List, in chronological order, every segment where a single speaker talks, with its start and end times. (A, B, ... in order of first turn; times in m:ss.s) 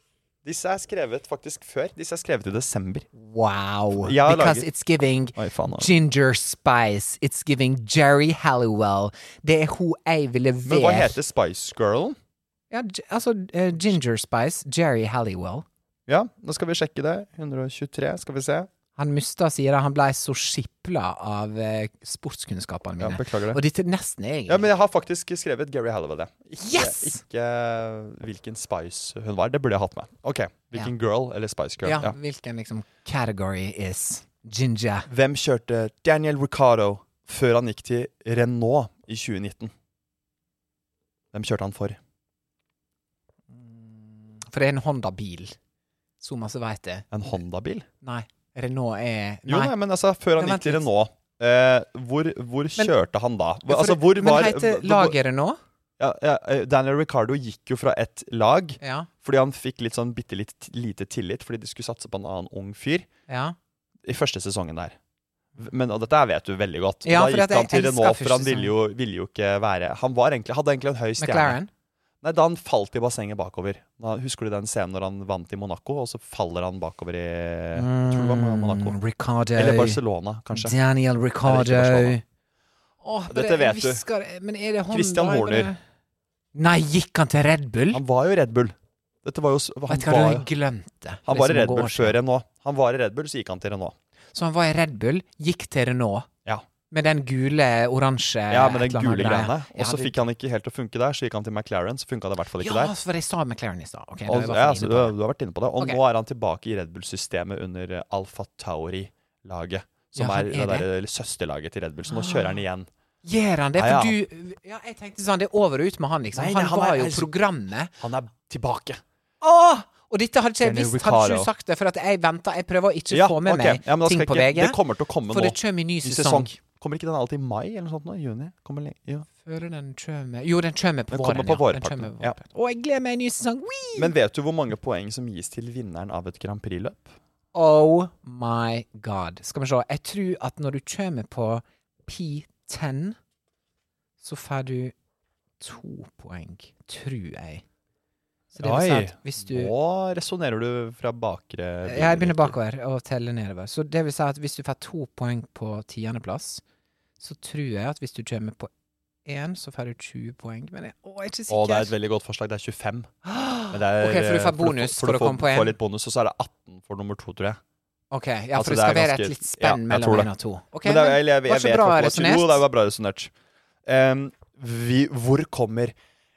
0:00.4-0:03.1 A
0:03.2-0:11.2 B
0:03.9-0:04.7 A
0:05.4-0:05.9 A
0:10.6-0:12.2 A
0:12.7-0:15.6 B
0:16.1-0:18.7 A
0:19.0-0:24.7 B
0:23.0-0:23.6 A
0:24.5-0:32.2 A
0:26.6-0:27.2 B
0:31.8-0:35.1 B
0:35.1-0:39.7 A
0:41.3-0:42.0 A
0:43.5-0:45.6 B
0:46.2-0:47.1 B
0:47.1-0:47.9 A
0:48.0-0:49.8 B
0:49.5-0:55.2 A
0:50.4-0:50.9 B
0:53.7-0:55.6 B
0:56.0-1:03.1 A
0:58.8-0:59.1 B
1:03.3-1:03.6 B
1:04.0-1:05.0 A
1:05.6-1:11.6 A
1:07.0-1:08.7 B
1:11.2-1:11.7 B
1:12.2-1:19.0 A
1:17.8-1:20.0 B
1:19.6-1:20.8 A
1:20.5-1:22.2 B
1:21.4-1:22.2 A
1:23.0-1:25.8 B
1:23.3-1:24.0 A
1:24.9-1:25.7 A
1:26.5-1:28.0 B
1:27.9-1:30.5 A
1:29.9-1:32.2 B
1:31.2-1:34.0 A
1:34.3-1:36.3 B
1:36.9-1:40.3 B
1:38.5-1:42.9 A
1:42.6-1:45.1 B
1:44.3-1:52.9 A
1:50.1-1:50.9 B
1:52.1-1:52.6 B
1:53.2-1:57.9 B
1:53.8-1:54.2 A
1:56.3-1:57.3 A
1:58.0-1:59.0 A
1:59.4-2:04.8 B
2:00.6-2:01.5 A
2:03.1-2:09.3 A
2:05.3-2:06.6 B
2:09.4-2:14.1 B
2:11.1-2:12.4 A
2:14.0-2:17.1 A
2:17.5-2:23.2 B
2:24.2-2:24.9 B
2:25.6-2:27.6 B
2:28.5-2:29.7 B
2:28.6-2:32.6 A
2:31.9-2:36.6 B
2:37.2-2:38.7 B
2:39.2-2:41.9 B
2:41.5-2:43.1 A
2:43.2-2:45.8 B
2:43.7-2:47.6 A
2:48.1-2:52.6 B
2:48.6-2:50.3 A
2:50.8-2:53.3 A
2:53.9-2:56.0 A